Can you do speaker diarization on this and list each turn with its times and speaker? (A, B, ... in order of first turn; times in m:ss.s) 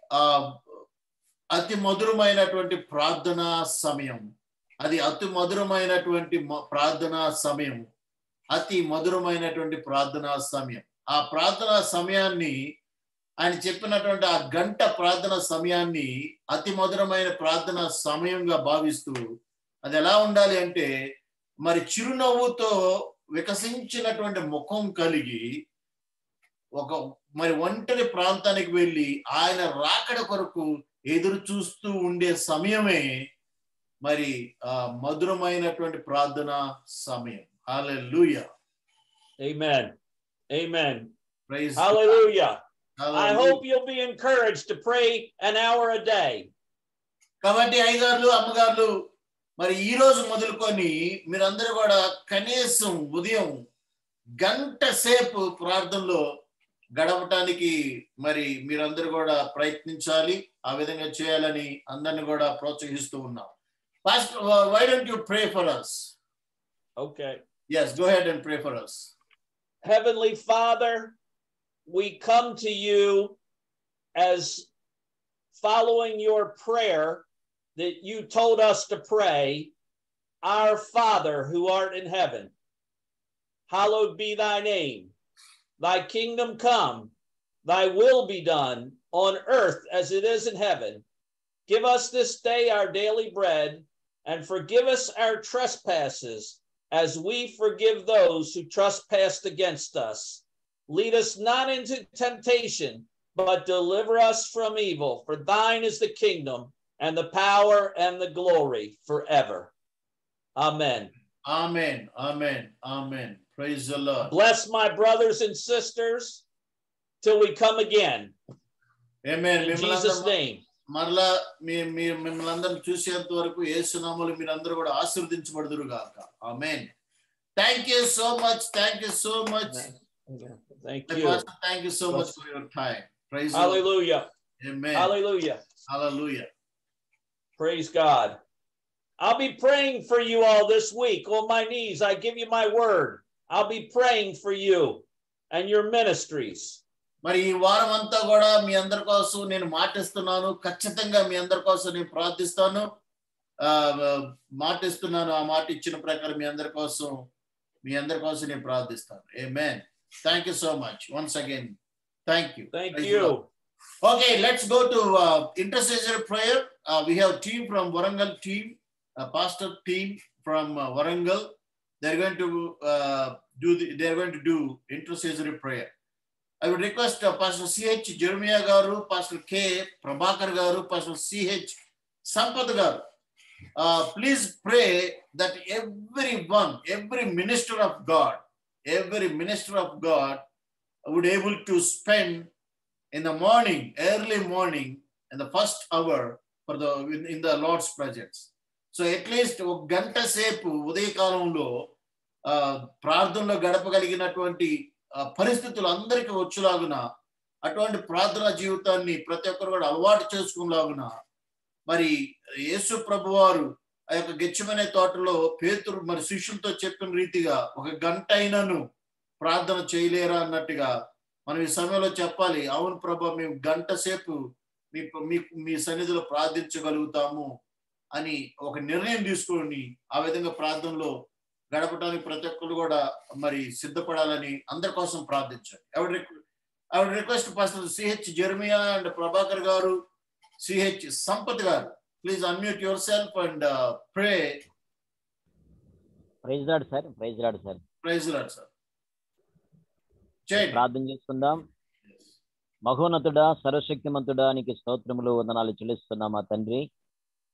0:00.2-0:00.4 A
0:01.5-0:04.2 A
0:04.8-0:07.9 A
0:08.5-0:12.6 A
0:13.4-0:19.2 A
0:19.8-0:20.9 A
0:21.6-0:22.7 A
0:23.4-0:25.4 A
0:26.8-0:33.1 A
0:34.0-0:38.5 A
0:39.4-0:39.9 B
0:40.5-0:41.1 B
0:41.5-0:42.2 A
0:41.8-0:42.6 B
0:43.0-0:43.6 A
0:43.1-0:46.5 B
0:47.4-0:48.9 A
0:49.6-0:53.5 A
0:54.4-0:56.2 A
0:57.0-1:03.5 A
1:04.1-1:06.2 A
1:07.0-1:07.4 B
1:07.7-1:09.1 A
1:09.8-1:11.2 B
1:11.9-1:13.4 B
1:14.2-1:14.7 B
1:15.5-1:17.2 B
1:17.8-1:19.7 B
1:20.4-1:22.5 B
1:23.7-1:25.1 B
1:25.8-1:27.1 B
1:27.6-1:31.0 B
1:31.7-1:49.7 B
1:50.6-1:51.1 B
1:51.5-1:54.3 A
1:54.2-1:56.4 B
1:57.2-1:58.3 B
1:59.3-2:00.3 A
1:59.6-2:00.6 B
2:00.9-2:06.9 A
2:07.6-2:09.8 A
2:09.7-2:11.4 B
2:11.1-2:13.8 A
2:12.1-2:12.4 B
2:13.5-2:14.3 B
2:14.6-2:15.1 A
2:15.0-2:15.6 B
2:15.9-2:16.5 A
2:17.6-2:18.4 B
2:19.2-2:26.8 B
2:27.2-2:32.9 A
2:33.6-2:37.3 A
2:37.8-2:41.8 A
2:42.3-2:43.3 A
2:42.7-2:43.5 B
2:44.0-2:51.5 A
2:52.0-2:55.9 A
2:56.6-3:01.8 A
3:02.3-3:03.0 A
3:03.8-3:10.4 A
3:11.1-3:12.5 A
3:13.1-3:21.7 A
3:22.5-3:27.0 A
3:27.7-3:31.1 A
3:32.7-3:38.8 A
3:39.4-3:40.9 A
3:41.5-3:44.4 A
3:44.9-3:47.5 A
3:48.2-3:51.1 A
3:51.7-3:56.4 A
3:57.0-4:00.0 A
4:00.6-4:04.6 A
4:06.4-4:07.8 C
4:08.0-4:08.7 A
4:10.5-4:10.8 A
4:10.6-4:11.6 C
4:12.9-4:16.8 C